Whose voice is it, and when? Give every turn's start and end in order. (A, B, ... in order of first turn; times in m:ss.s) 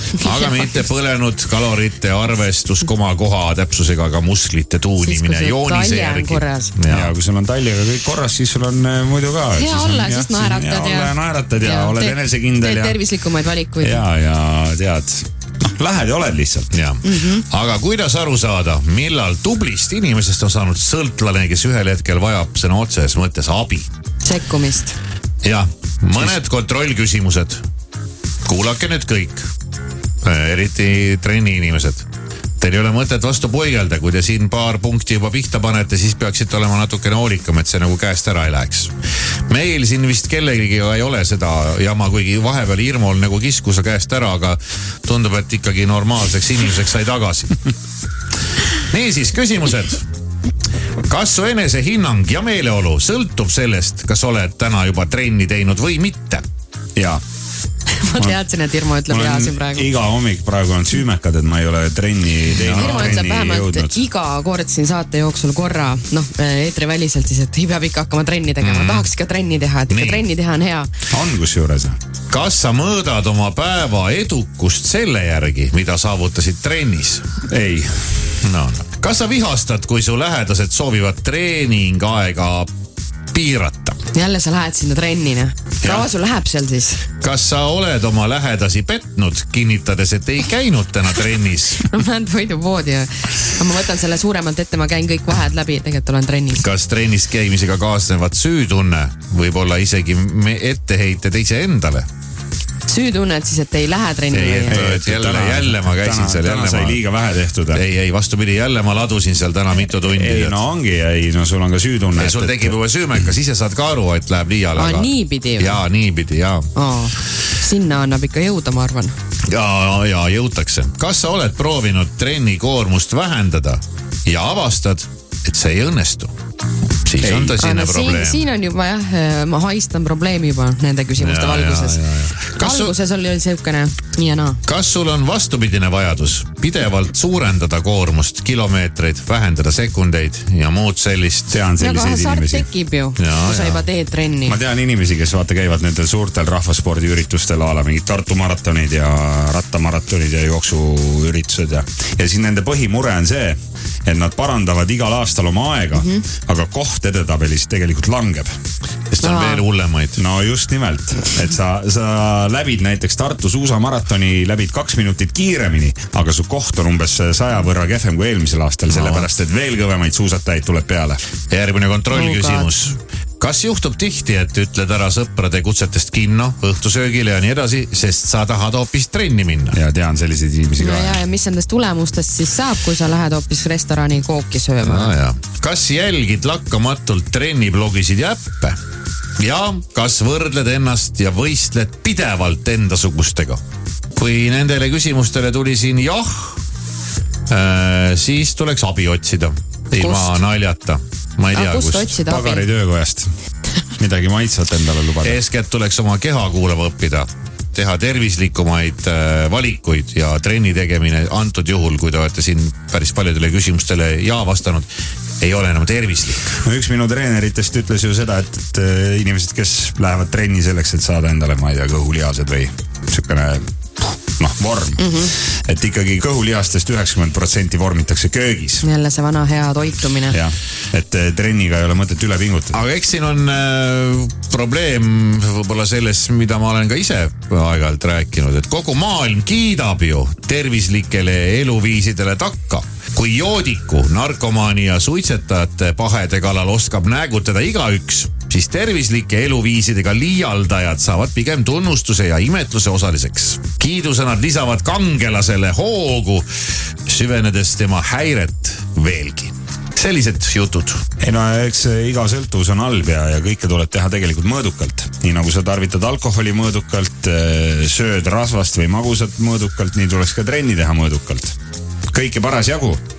0:00.2-0:07.1 A
0:05.0-0:06.7 B
0:06.9-0:13.0 C
0:09.5-0:14.0 B
0:13.8-0:16.7 C
0:16.7-0:23.9 A
0:17.0-0:17.4 B
0:24.2-0:25.0 B
0:25.4-0:27.6 A
0:28.4-0:29.5 A
0:30.2-0:32.0 A
0:32.6-0:38.9 A
0:39.5-0:47.6 A
0:48.9-0:50.0 A
0:51.1-0:56.4 A
0:57.0-0:57.2 C
0:58.0-0:59.9 B
0:59.1-1:04.0 C
1:02.6-1:10.9 B
1:02.7-1:03.1 A
1:08.6-1:09.1 A
1:09.9-1:10.2 A
1:11.1-1:12.0 C
1:12.3-1:17.2 A
1:17.5-1:18.0 C
1:18.4-1:22.7 A
1:23.3-1:24.0 A
1:24.1-1:27.0 B
1:27.2-1:31.9 A
1:31.8-1:36.6 B
1:36.6-1:42.1 A
1:42.9-1:44.8 B
1:44.3-1:47.0 A
1:44.7-1:47.8 C
1:47.7-1:50.6 A
1:49.9-1:52.8 C
1:52.2-1:56.7 A
1:54.8-1:55.8 B
1:56.8-1:59.1 B
1:59.5-2:06.3 A
2:07.0-2:08.4 A
2:07.2-2:07.6 C
2:07.6-2:14.6 B
2:11.2-2:12.9 A
2:14.6-2:21.6 A
2:21.5-2:22.7 C
2:21.8-2:24.6 B
2:23.2-2:23.8 A
2:24.4-2:38.5 C
2:36.0-2:36.2 B
2:39.1-2:40.2 A
2:39.2-2:39.6 B
2:40.2-2:51.2 C
2:48.9-2:49.3 A
2:51.5-2:59.8 A
2:52.1-2:52.7 B
2:59.7-3:01.2 C
3:00.8-3:05.1 B
3:04.8-3:08.8 A
3:09.4-3:13.6 A
3:14.2-3:16.6 A
3:17.5-3:22.2 A
3:20.0-3:20.4 B
3:21.5-3:22.7 B
3:22.3-3:23.3 C
3:24.0-3:25.4 C
3:25.2-3:34.9 A
3:35.4-3:36.6 A
3:36.6-3:48.8 C
3:45.0-3:45.3 B
3:48.8-3:50.4 B
3:50.3-3:52.7 C
3:52.7-4:16.5 A
4:17.1-4:21.0 A
4:21.2-4:31.6 C
4:32.1-4:33.0 C